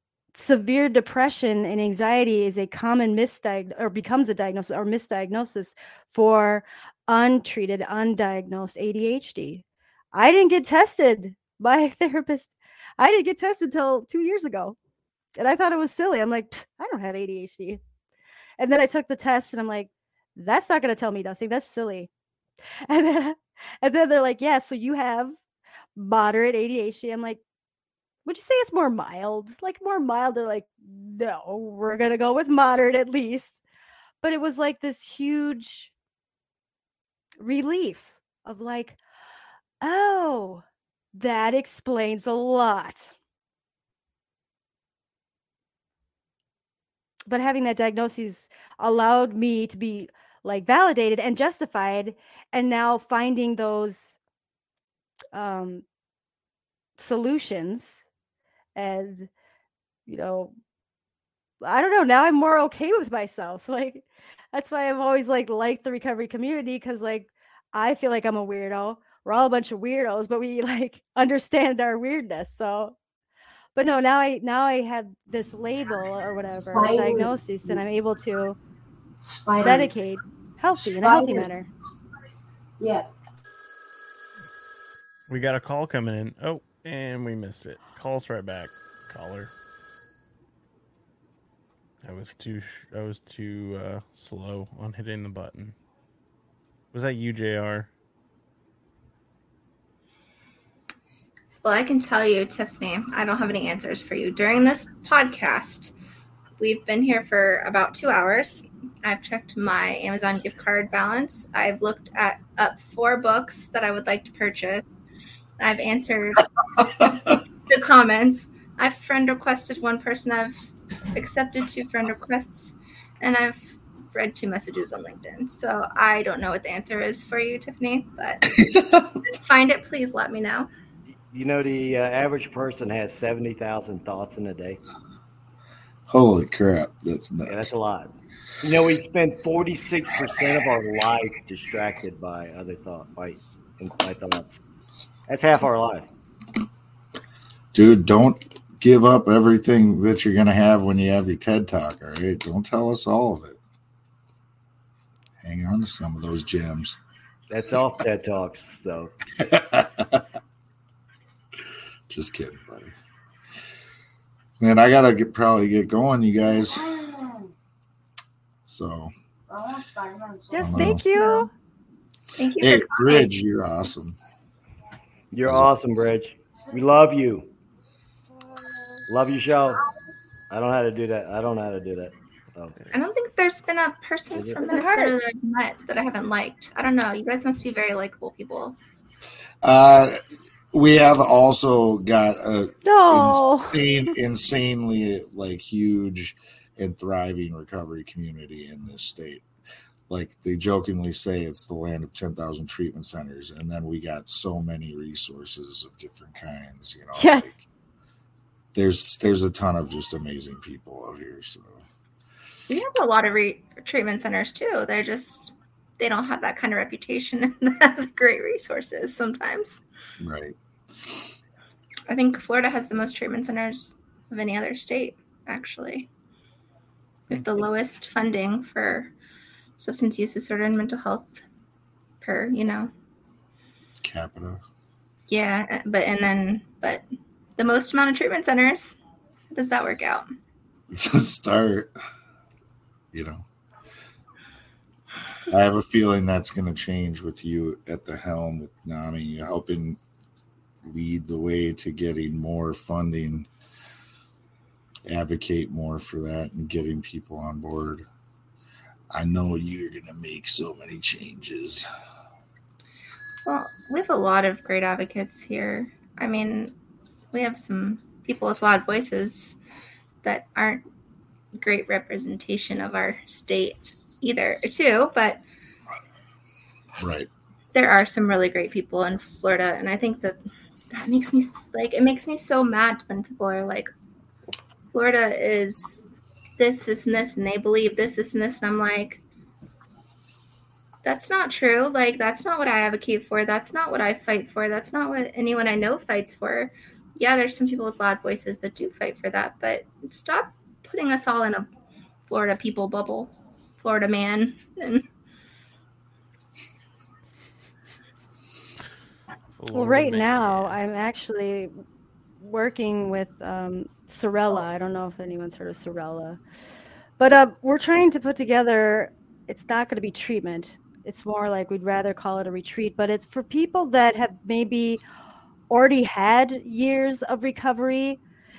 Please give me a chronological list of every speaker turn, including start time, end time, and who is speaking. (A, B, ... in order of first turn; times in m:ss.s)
0:00.3-0:14.8 A
0:15.4-0:17.8 A
0:18.6-0:22.1 A
0:22.8-0:25.4 A
0:26.0-0:27.4 A
0:28.2-0:33.6 A
0:34.2-0:35.9 A
0:37.4-0:39.0 A
0:39.8-0:40.6 A
0:41.1-0:43.1 A
0:47.2-0:54.2 A
0:55.3-0:55.8 A
0:57.0-0:58.1 A
0:58.8-0:59.3 A
1:00.0-1:00.5 A
1:01.6-1:13.0 A
1:13.8-1:18.6 A
1:16.6-1:17.8 B
1:19.3-1:19.9 B
1:19.6-1:21.7 A
1:20.9-1:21.5 B
1:22.8-1:23.1 B
1:25.3-1:29.5 C
1:32.0-1:35.7 C
1:36.9-1:37.9 C
1:41.6-1:45.9 D
1:46.6-1:54.8 D
1:55.6-2:08.6 D
2:08.5-2:09.2 E
2:09.2-2:10.7 D
2:11.3-2:14.8 F
2:16.1-2:17.7 E
2:17.5-2:24.6 F
2:25.3-2:26.1 F
2:27.7-2:33.6 E
2:35.4-2:37.0 E
2:37.5-2:39.1 F
2:39.4-2:40.2 E
2:42.1-2:42.9 E
2:44.6-2:47.0 E
2:47.0-2:47.4 B
2:48.6-2:49.1 E
2:49.5-2:51.0 B
2:50.5-2:51.5 A
2:50.6-2:51.0 E
2:52.4-2:53.3 D
2:52.6-2:54.1 E
2:55.3-2:57.5 F
2:55.4-2:55.7 E
2:59.1-2:59.8 F
3:00.5-3:02.8 F
3:02.9-3:08.8 D
3:04.3-3:04.6 F
3:04.6-3:05.1 A
3:09.6-3:10.2 E
3:10.7-3:19.4 E
3:12.8-3:13.8 A
3:20.1-3:27.6 E
3:27.2-3:27.5 A
3:28.7-3:31.8 E
3:32.7-3:39.8 D
3:40.2-3:41.4 E
3:42.1-3:46.1 D
3:47.3-3:49.1 D
3:49.8-3:51.4 D
3:52.2-3:52.9 D
3:54.0-3:54.6 E
3:55.3-3:57.0 D
3:57.6-3:59.0 D
3:59.5-4:00.3 D
4:00.9-4:01.9 E
4:03.1-4:03.4 E
4:05.5-4:10.0 E
4:10.8-4:13.5 E
4:15.0-4:18.0 E
4:19.1-4:21.8 E
4:23.4-4:26.7 D
4:27.3-4:29.6 D
4:30.2-4:30.8 D
4:31.5-4:35.4 D
4:37.0-4:37.3 E
4:37.7-4:40.4 D
4:40.9-4:43.9 D
4:44.9-4:49.2 D
4:51.0-5:01.6 D
5:02.3-5:05.0 D
5:09.6-5:10.8 C
5:09.7-5:11.7 A
5:12.4-5:16.4 A
5:17.2-5:25.0 A
5:25.7-5:28.2 A